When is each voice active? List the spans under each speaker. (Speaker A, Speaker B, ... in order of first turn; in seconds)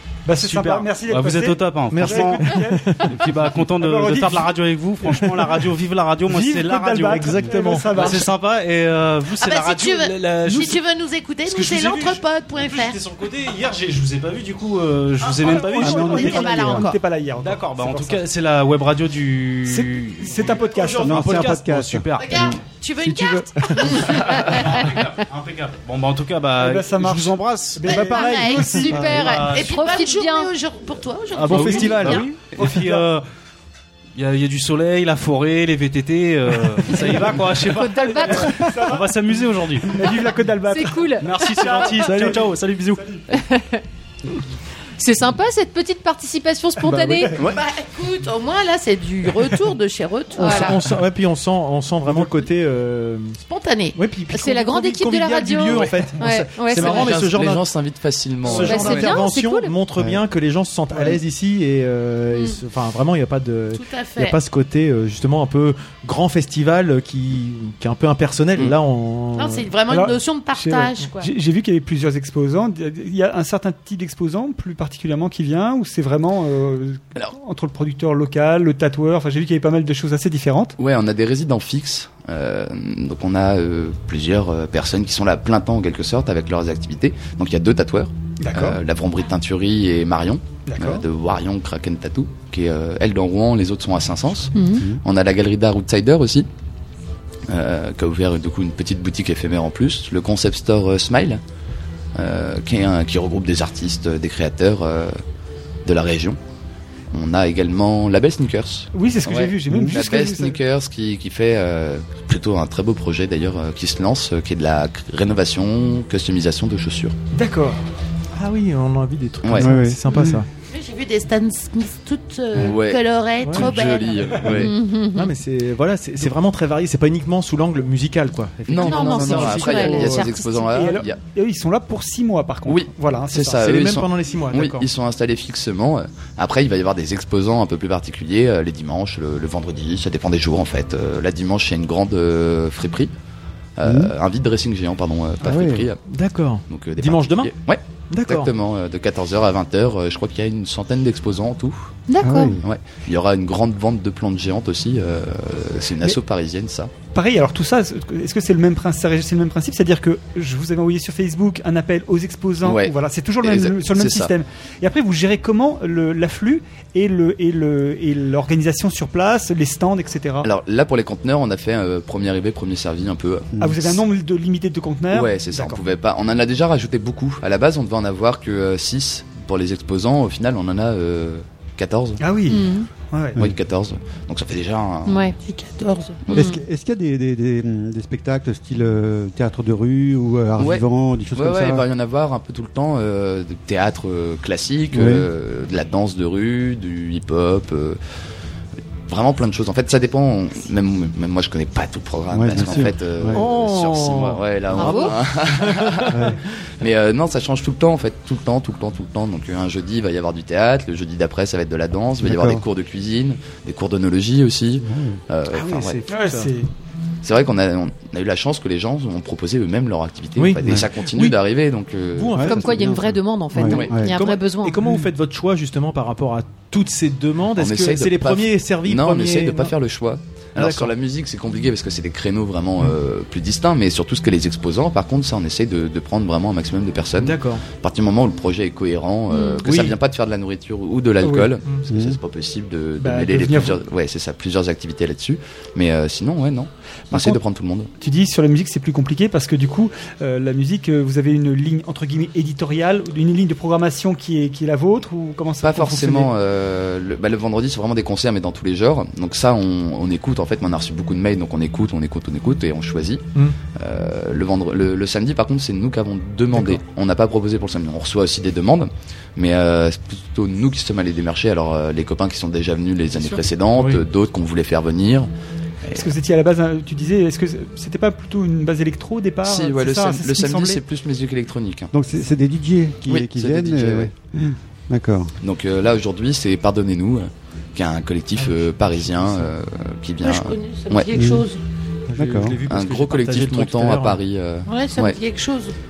Speaker A: 0.2-5.5, 6.2-8.3, 15.6-18.2, 19.6-21.4, 26.6-29.0, 32.6-33.1, 38.1-39.2, 39.9-43.2, 47.0-47.4, 60.9-61.2, 69.9-80.8, 88.4-88.8, 90.6-91.0, 108.9-110.6, 117.3-117.8, 130.7-133.7, 157.1-170.5, 173.6-175.8, 182.2-183.4, 216.1-216.7, 241.2-241.5, 243.0-243.8, 247.1-247.4, 248.0-256.3, 275.9-280.8
Speaker B: 0.4-7.2, 7.9-10.8, 11.4-16.6, 17.4-22.4, 23.9-29.7, 31.4-33.2, 34.1-40.0, 41.2-43.0
Speaker C: 1.9-3.2, 7.0-8.2, 20.7-21.4, 31.3-32.9, 37.0-37.3, 41.6-42.7, 50.4-53.4, 54.0-57.7, 58.4-69.7, 118.3-120.5, 123.4-123.7, 125.1-130.3, 133.5-134.9, 146.1-147.5, 148.1-148.5, 203.3-206.2, 215.5-216.5, 220.4-221.4, 222.1-222.9, 224.0-229.7, 230.6-230.9, 237.2-237.6, 239.6-239.9, 266.5-266.8, 273.7-274.0, 288.4-289.5, 292.1-294.2
Speaker D: 9.4-13.0, 15.2-17.0, 22.1-25.0, 27.9-32.3, 47.4-50.8, 53.5-54.0, 63.7-64.3, 69.3-71.3, 120.7-124.4, 185.4-186.2, 290.2-291.6, 294.6-295.7
Speaker E: 15.8-16.9, 21.0-22.6, 60.0-60.2, 109.7-110.0, 119.6-120.4, 143.8-144.1, 145.4-145.9, 152.2-152.6, 173.5-173.9, 186.3-191.8, 194.9-195.2, 202.3-203.4, 206.1-206.4, 212.2-212.6, 214.8-215.2, 222.3-224.1, 241.9-242.2, 281.9-285.3, 291.1-291.4, 292.1-292.6
Speaker F: 28.6-30.5, 37.7-38.6, 40.7-41.3, 43.3-43.8, 45.0-47.4, 50.4-50.8, 54.3-57.2, 58.5-59.7, 94.5-94.8, 124.5-125.3, 128.8-130.7, 152.1-152.6, 182.5-182.9, 185.1-185.3, 186.3-186.6, 204.7-205.1, 222.4-224.8, 239.3-239.6
Speaker G: 56.8-59.2, 80.8-96.5, 97.5-101.4, 102.1-105.2, 105.8-106.4, 107.1-117.1, 119.4-119.8, 122.5-124.8, 128.7-131.2, 132.7-143.1, 143.8-146.0, 146.7-151.9, 152.6-156.9, 162.6-164.3, 170.4-174.0, 175.1-182.2, 183.3-185.3, 190.6-190.8, 191.3-198.0, 199.1-206.2, 206.8-216.0, 217.2-222.5, 223.7-224.0, 227.6-247.9, 255.6-275.3, 279.4-281.9, 283.1-284.1, 285.4-291.1, 292.6-295.2